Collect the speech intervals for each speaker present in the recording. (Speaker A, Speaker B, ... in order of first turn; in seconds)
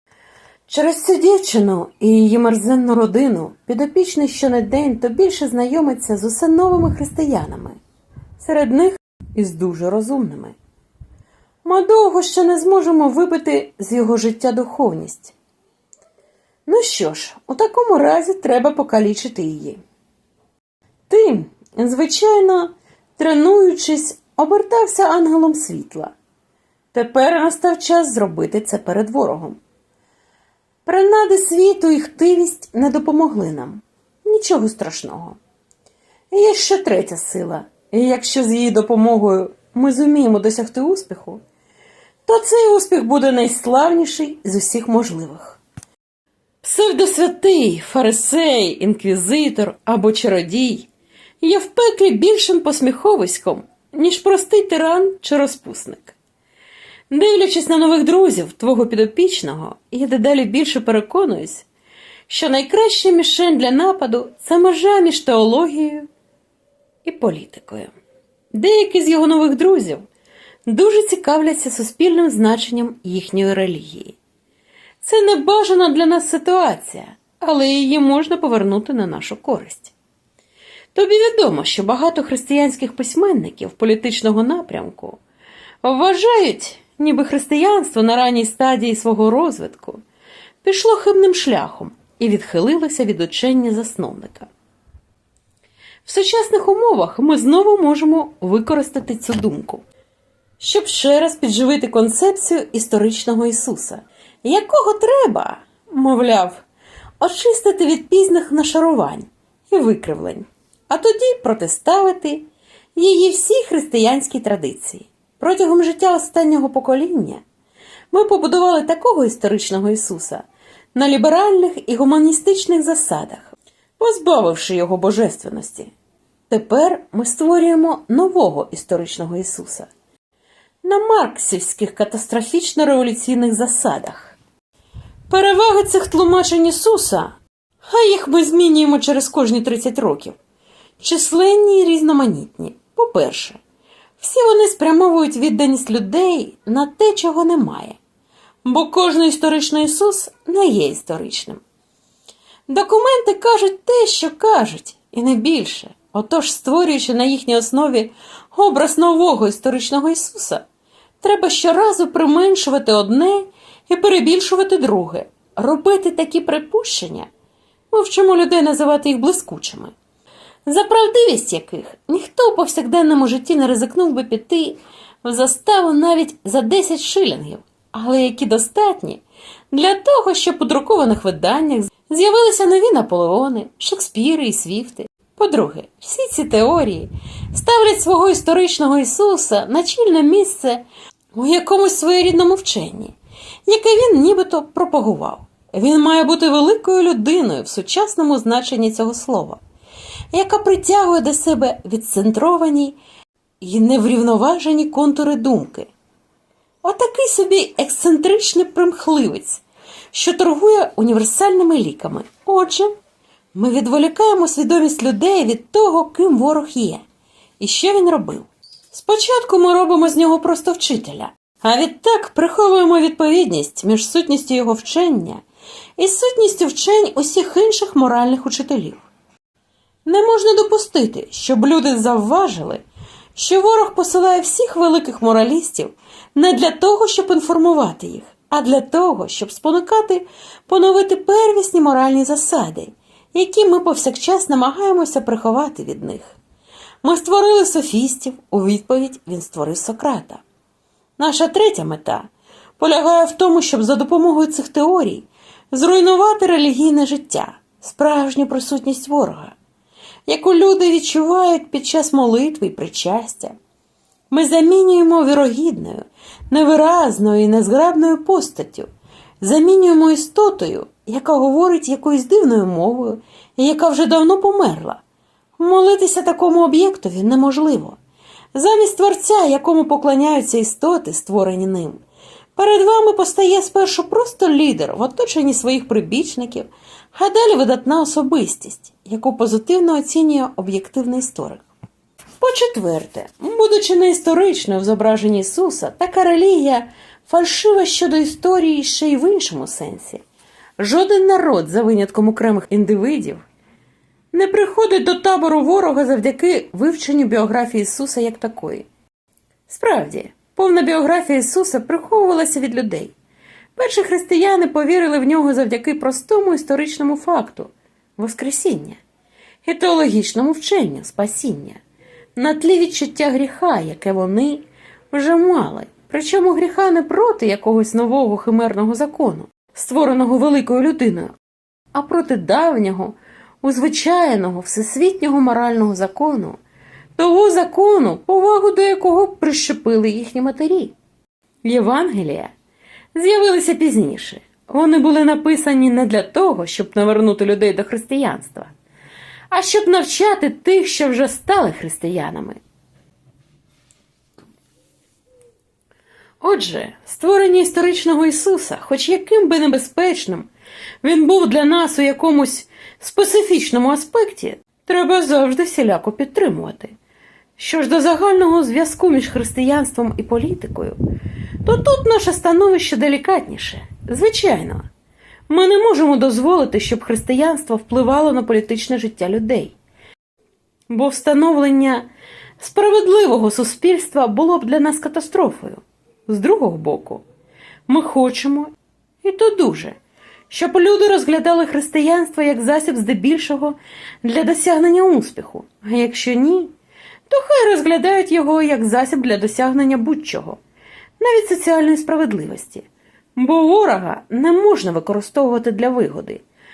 Speaker A: 0.7-7.8, 8.4-10.5, 11.6-15.3, 16.6-19.8, 21.1-26.1, 26.9-29.6, 30.8-35.4, 36.3-41.4, 42.2-45.6, 46.6-50.9, 51.4-56.1, 57.1-61.7, 62.3-66.1, 67.0-67.9, 68.5-70.0, 70.7-74.2, 75.0-79.9, 80.9-85.2, 85.8-90.0, 90.6-94.5, 96.0-99.8, 100.6-106.6, 107.2-117.4, 118.1-125.9, 126.5-129.9, 130.8-134.4, 135.3-140.3, 141.0-143.6, 144.2-148.0, 148.6-151.6, 152.7-160.7, 161.2-167.3, 167.9-169.9, 170.7-193.1, 193.7-199.6, 200.3-203.0, 203.6-205.9, 206.8-212.9, 213.5-217.0, 217.6-225.4, 226.0-229.0, 230.1-232.8, 233.3-246.4, 247.0-250.4, 251.2-259.6, 260.2-263.6, 264.3-268.9, 269.4-275.0, 275.6-278.0, 278.5-282.0, 282.6-291.6, 292.4-300.2, 300.8-303.4, 304.3-308.9, 309.7-313.1, 313.8-319.0, 319.6-321.8, 322.4-331.3, 331.9-336.6, 337.2-340.9, 341.6-342.5, 343.1-348.7, 349.5-352.6, 356.4-360.5, 361.0-366.9, 367.6-371.0, 371.6-374.9, 375.5-379.7, 380.9-382.1, 382.6-387.2, 387.9-388.7, 389.2-389.9, 390.5-396.7, 397.3-400.6, 401.2-406.4